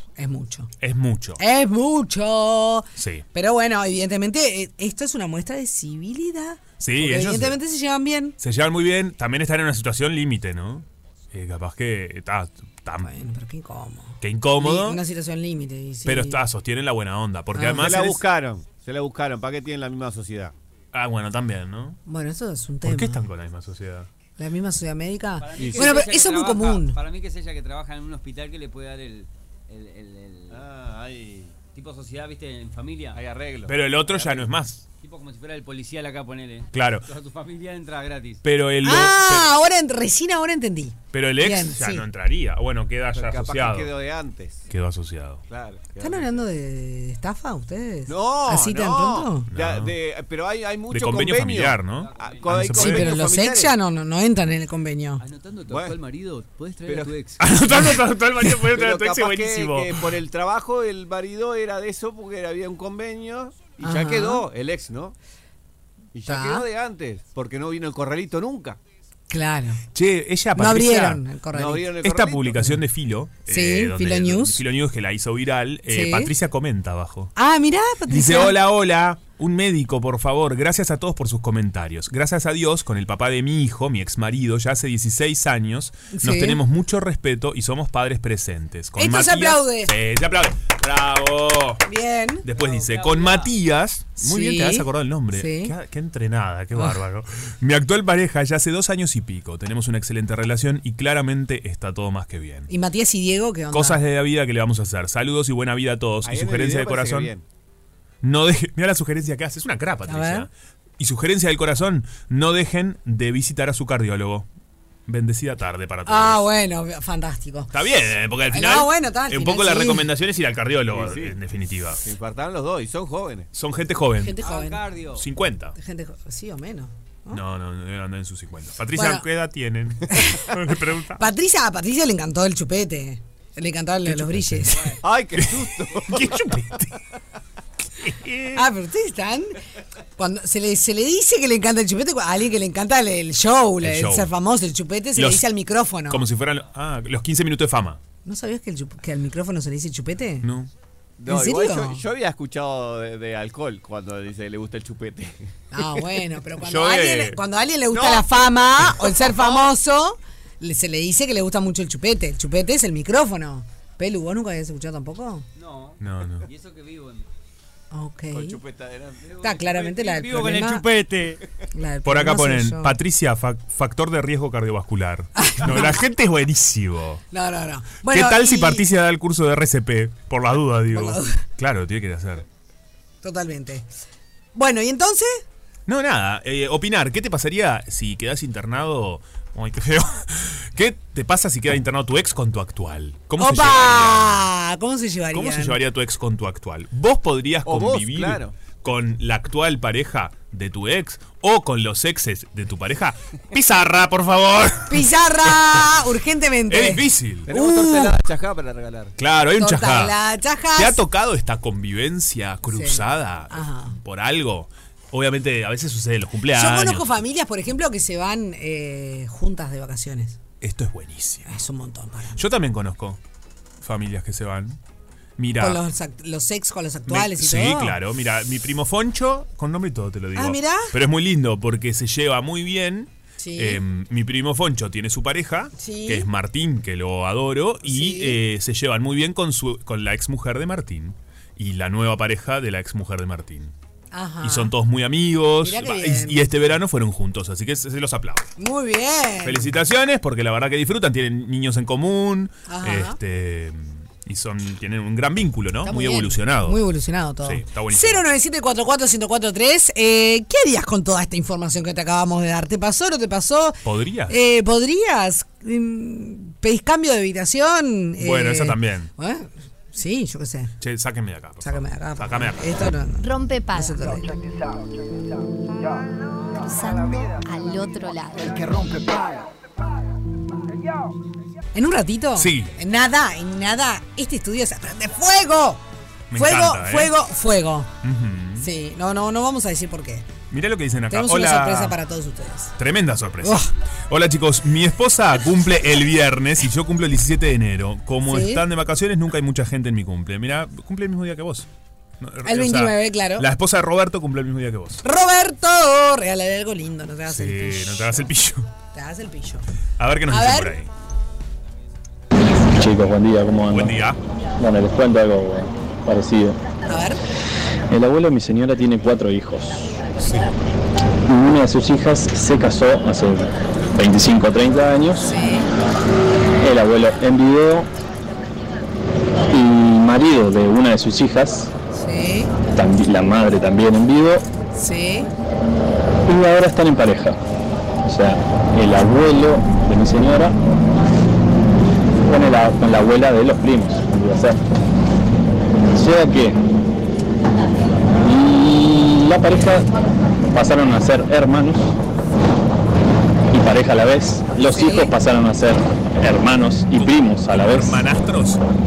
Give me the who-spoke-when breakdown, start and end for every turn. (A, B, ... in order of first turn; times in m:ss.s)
0:00.2-0:00.7 A
0:00.8-0:01.4 B
0:01.4-0:08.4 A
0:03.0-0:03.2 B
0:06.8-0:07.6 B
0:08.4-0:13.1 B
0:13.0-0:16.4 A
0:14.2-0:15.0 B
0:16.0-0:18.2 B
0:17.6-0:17.8 A
0:17.6-0:20.5 C
0:20.9-0:22.0 B
0:22.1-0:23.2 A
0:22.8-0:24.1 B
0:24.4-0:27.0 A
0:25.4-0:30.6 D
0:25.6-0:26.0 C
0:30.5-0:31.5 C
0:31.7-0:33.2 D
0:33.1-0:33.8 C
0:33.7-0:34.8 B
0:34.2-0:34.5 D
0:35.0-0:38.4 D
0:36.7-0:37.1 B
0:38.4-0:39.5 B
0:38.8-0:42.0 A
0:41.1-0:43.9 B
0:43.1-0:44.7 C
0:44.7-0:45.4 B
0:45.5-0:46.3 C
0:46.0-0:49.5 A
0:48.1-0:53.7 C
0:49.5-0:50.0 B
0:50.9-0:53.1 B
0:51.9-0:52.7 D
0:52.7-0:55.2 A
0:55.2-0:57.5 D
0:55.7-0:56.0 C
0:56.8-0:57.2 C
0:57.4-1:00.0 B
0:58.7-1:05.2 C
1:03.8-1:04.5 A
1:06.1-1:08.8 C
1:06.3-1:06.6 A
1:09.3-1:09.8 A
1:09.9-1:11.3 B
1:10.6-1:12.0 A
1:11.5-1:12.7 C
1:12.0-1:17.3 B
1:13.5-1:14.6 A
1:15.9-1:16.3 A
1:17.4-1:18.6 A
1:18.1-1:31.8 B
1:26.1-1:26.6 A
1:29.0-1:29.9 A
1:31.9-1:32.5 A
1:32.4-1:42.7 B
1:32.5-1:33.5 D
1:34.2-1:35.8 A
1:42.7-1:44.0 A
1:43.7-1:47.3 B
1:46.2-1:47.4 C
1:48.2-1:54.5 B
1:50.1-1:50.5 A
1:55.1-1:56.5 B
1:56.1-1:57.7 A
1:57.7-2:02.0 B
1:58.5-2:00.1 A
2:00.9-2:01.4 C
2:02.0-2:03.5 C
2:03.5-2:04.4 B
2:04.2-2:04.9 A
2:04.4-2:05.2 D
2:05.2-2:05.8 B
2:05.8-2:07.4 A
2:07.3-2:11.2 B
2:09.0-2:09.2 A
2:10.1-2:10.5 A
2:11.2-2:15.0 A
2:14.1-2:14.6 B
2:15.0-2:16.4 C
2:15.4-2:17.0 B
2:17.9-2:18.7 B
2:18.6-2:19.6 A
2:20.2-2:26.2 A
2:23.8-2:24.3 B
2:25.2-2:25.5 B
2:26.1-2:28.0 B
2:28.2-2:30.5 A
2:30.4-2:30.7 B
2:31.2-2:35.5 C
2:31.3-2:32.0 A
2:35.7-2:45.4 A
2:36.6-2:37.4 B
2:37.9-2:39.6 C
2:45.6-2:47.3 D
2:46.0-2:46.5 B
2:47.9-2:48.6 A
2:48.3-2:49.2 C
2:49.2-2:51.4 D
2:49.4-2:50.8 A
2:51.7-2:53.0 A
2:52.0-2:57.2 B
2:55.4-2:56.0 A
2:57.3-2:58.8 A
2:58.0-3:02.5 B
3:00.9-3:01.4 A
3:03.2-3:03.9 A
3:04.6-3:05.4 A
3:05.9-3:14.5 B
3:13.4-3:15.8 A
3:15.3-3:26.0 B
3:17.7-3:18.6 C
3:24.9-3:28.2 A
3:26.7-3:27.5 B
3:27.5-3:29.2 C
3:29.2-3:30.2 B
3:29.6-3:31.0 A
3:30.8-3:37.1 B
3:32.7-3:34.0 A
3:36.5-3:40.4 A
3:40.6-3:41.5 B
3:41.5-3:42.4 A
3:42.4-3:43.2 B
3:43.8-3:44.8 B
3:45.4-3:45.8 B
3:45.6-3:48.0 A
3:47.1-4:03.7 B
3:50.4-3:50.9 A
3:53.4-3:53.8 A
3:55.8-3:56.3 A
3:57.8-3:58.4 A
4:04.1-4:04.7 A
4:04.4-4:08.5 B
4:05.6-4:06.5 A
4:08.6-4:09.8 A
4:09.4-4:16.8 B
4:12.7-4:13.2 A
4:15.8-4:30.7 A
4:17.4-4:18.3 B
4:23.8-4:24.4 B
4:28.2-4:29.1 B
4:30.8-4:32.7 B
4:31.6-4:34.3 A
4:33.2-4:34.3 E
4:36.6-4:38.8 E
4:41.7-4:45.8 A
4:42.4-4:42.7 B
4:46.3-4:47.1 B
4:46.4-4:47.9 A
4:48.0-4:48.7 B
4:48.6-4:50.3 A
4:50.5-4:52.0 B
4:51.1-4:52.7 A
4:52.8-5:01.7 B
4:53.4-4:53.7 A
4:58.3-4:58.6 A
5:02.2-5:05.0 B
5:02.4-5:03.5 A
5:05.0-5:08.3 A
5:07.3-5:08.7 B
5:08.9-5:09.6 A
5:10.0-5:10.9 B
5:10.3-5:10.8 A
5:12.4-5:12.7 A
5:12.7-5:14.0 F
5:13.7-5:14.2 B
5:14.6-5:16.6 F
5:16.9-5:17.2 A
5:17.9-5:20.0 F
5:20.2-5:20.5 B
5:21.3-5:25.3 F
5:25.2-5:25.7 A
5:26.6-5:27.9 F
5:29.5-5:31.7 F
5:31.9-5:32.5 A
5:32.7-5:34.5 F
5:34.8-5:35.3 A
5:36.2-5:37.4 F
5:38.0-5:40.6 F
5:42.2-5:44.6 F
5:45.9-5:46.6 F
5:48.2-5:49.9 F
5:50.4-5:52.0 F
5:53.5-5:58.0 F
5:54.6-5:55.1 A
5:57.0-5:58.6 B